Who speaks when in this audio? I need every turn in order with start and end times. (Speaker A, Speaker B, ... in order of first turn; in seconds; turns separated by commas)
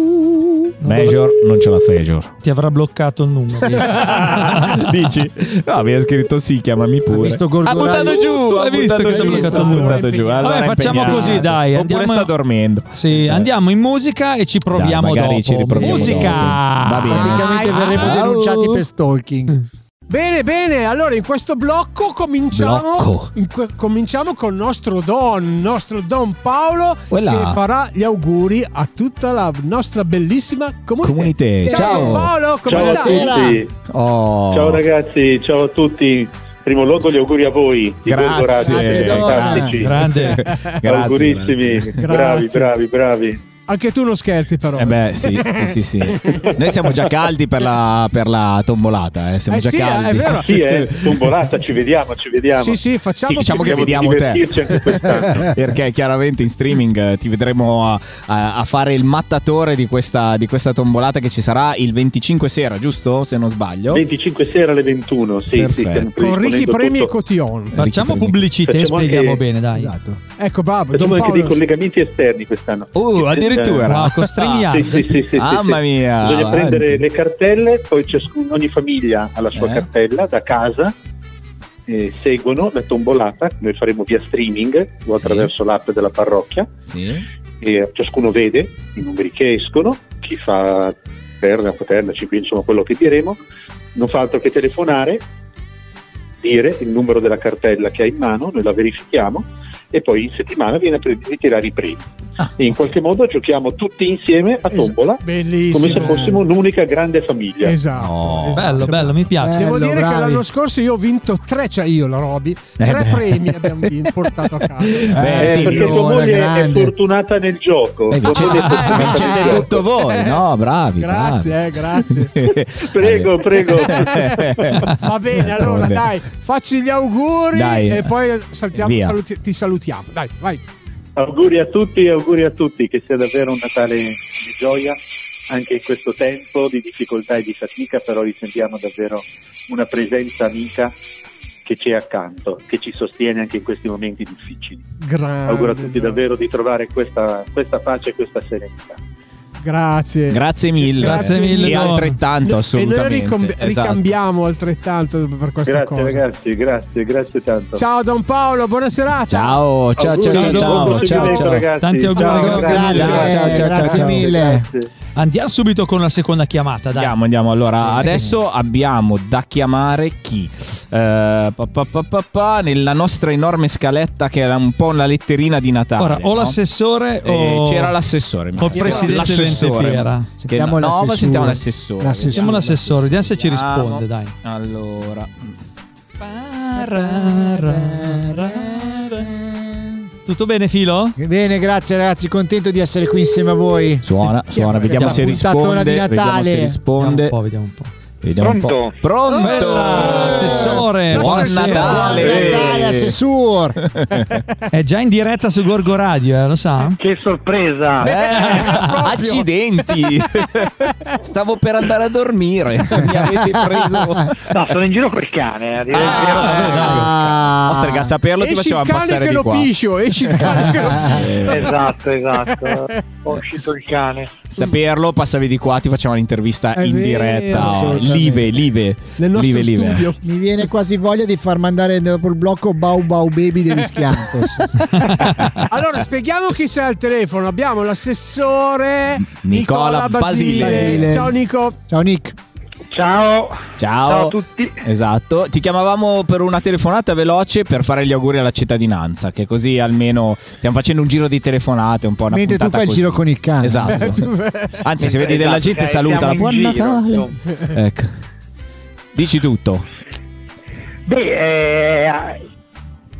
Speaker A: 0.8-2.4, Speaker B: 0.8-1.2, Speaker B: 2.4-4.9, Speaker A: 3.6-13.5, Speaker C: 7.1-10.0, Speaker B: 8.4-12.3, Speaker D: 9.1-11.4, Speaker C: 11.1-11.5, Speaker B: 12.9-18.1, Speaker A: 14.7-18.8, Speaker D: 15.8-16.4, Speaker C: 15.8-16.4, Speaker C: 17.1-19.6, Speaker D: 17.2-18.1, Speaker D: 20.1-33.4, Speaker A: 22.5-23.3, Speaker A: 27.1-27.6, Speaker A: 31.0-32.5, Speaker E: 31.7-32.0, Speaker E: 32.6-33.7, Speaker C: 32.7-33.6, Speaker A: 33.9-34.8, Speaker E: 34.5-40.2, Speaker A: 38.1-42.1, Speaker C: 38.5-39.8, Speaker B: 39.8-40.4, Speaker D: 40.5-40.8, Speaker E: 40.8-43.4, Speaker D: 42.0-42.7, Speaker D: 43.7-46.5, Speaker A: 44.7-51.1, Speaker D: 49.5-50.8, Speaker E: 50.3-52.8, Speaker D: 52.5-54.0, Speaker A: 53.3-64.0, Speaker E: 53.5-55.5, Speaker E: 63.9-67.1, Speaker A: 65.5-66.1, Speaker D: 66.2-67.8, Speaker A: 67.7-68.4, Speaker B: 67.7-69.9, Speaker E: 68.6-69.4, Speaker C: 69.7-70.2, Speaker D: 70.4-71.6, Speaker E: 70.9-73.9, Speaker A: 72.9-74.3, Speaker B: 73.8-75.1, Speaker E: 74.4-80.9, Speaker A: 75.3-77.0, Speaker A: 79.5-79.8, Speaker E: 81.9-86.7, Speaker A: 85.2-85.5, Speaker A: 86.9-87.2, Speaker E: 87.6-93.4, Speaker E: 93.9-95.2, Speaker E: 96.4-102.0, Speaker A: 102.4-102.8, Speaker E: 102.6-107.8, Speaker D: 104.7-106.4, Speaker D: 107.6-115.2, Speaker A: 108.0-109.1, Speaker B: 108.5-109.7, Speaker C: 109.4-110.4, Speaker A: 112.8-113.8, Speaker A: 114.8-116.0, Speaker C: 115.1-116.9, Speaker E: 115.4-119.8, Speaker A: 118.1-123.3, Speaker D: 118.3-120.4, Speaker B: 118.4-119.0, Speaker C: 119.1-119.6, Speaker D: 121.0-122.3, Speaker E: 122.4-124.9, Speaker D: 123.8-124.2, Speaker A: 123.9-124.9, Speaker D: 125.0-130.6, Speaker A: 125.4-126.1, Speaker A: 127.5-128.1, Speaker A: 128.8-129.2, Speaker E: 131.2-140.9, Speaker E: 141.6-144.9, Speaker D: 145.0-146.2, Speaker E: 145.5-149.0, Speaker D: 149.6-156.2, Speaker A: 150.3-154.0, Speaker B: 151.0-152.2, Speaker E: 155.6-157.8, Speaker D: 157.7-159.6, Speaker A: 159.3-161.6, Speaker E: 159.9-164.9, Speaker B: 160.3-163.1, Speaker D: 161.2-161.5, Speaker C: 162.2-164.6, Speaker A: 162.3-164.3, Speaker B: 165.2-167.2, Speaker A: 166.9-176.6, Speaker C: 167.9-168.3, Speaker B: 176.0-177.9, Speaker A: 177.2-185.6, Speaker B: 178.6-180.3, Speaker D: 178.7-179.2, Speaker C: 180.4-182.9, Speaker B: 182.2-184.3, Speaker B: 186.2-189.3, Speaker C: 187.7-190.0, Speaker B: 190.2-191.2, Speaker C: 191.2-194.1, Speaker A: 194.0-197.3, Speaker D: 194.5-195.2, Speaker C: 194.8-196.8, Speaker B: 194.9-195.3, Speaker B: 197.0-197.9, Speaker A: 198.2-203.2, Speaker F: 198.4-199.1, Speaker D: 199.3-202.4, Speaker B: 199.4-202.1, Speaker C: 200.0-200.9, Speaker C: 201.7-203.8, Speaker E: 202.2-202.8, Speaker A: 203.8-204.4, Speaker B: 204.7-207.0, Speaker F: 207.0-208.1, Speaker A: 208.0-214.7, Speaker D: 208.0-210.1, Speaker B: 208.2-209.0, Speaker C: 213.1-214.2, Speaker F: 214.5-217.3, Speaker A: 215.9-221.9, Speaker B: 216.4-217.1, Speaker C: 216.6-218.1, Speaker D: 218.4-221.2, Speaker C: 220.4-221.3, Speaker F: 221.4-224.4, Speaker D: 222.5-223.0, Speaker A: 224.5-230.1, Speaker D: 226.8-228.5, Speaker C: 227.5-228.4, Speaker D: 229.2-230.2, Speaker C: 230.2-234.8, Speaker D: 234.0-234.7, Speaker D: 235.6-241.8, Speaker A: 239.2-241.2, Speaker C: 240.6-242.3, Speaker F: 242.9-244.8, Speaker A: 243.8-258.2, Speaker C: 252.3-254.2, Speaker D: 253.9-254.8, Speaker F: 255.0-257.4, Speaker A: 259.1-259.9, Speaker F: 261.1-262.4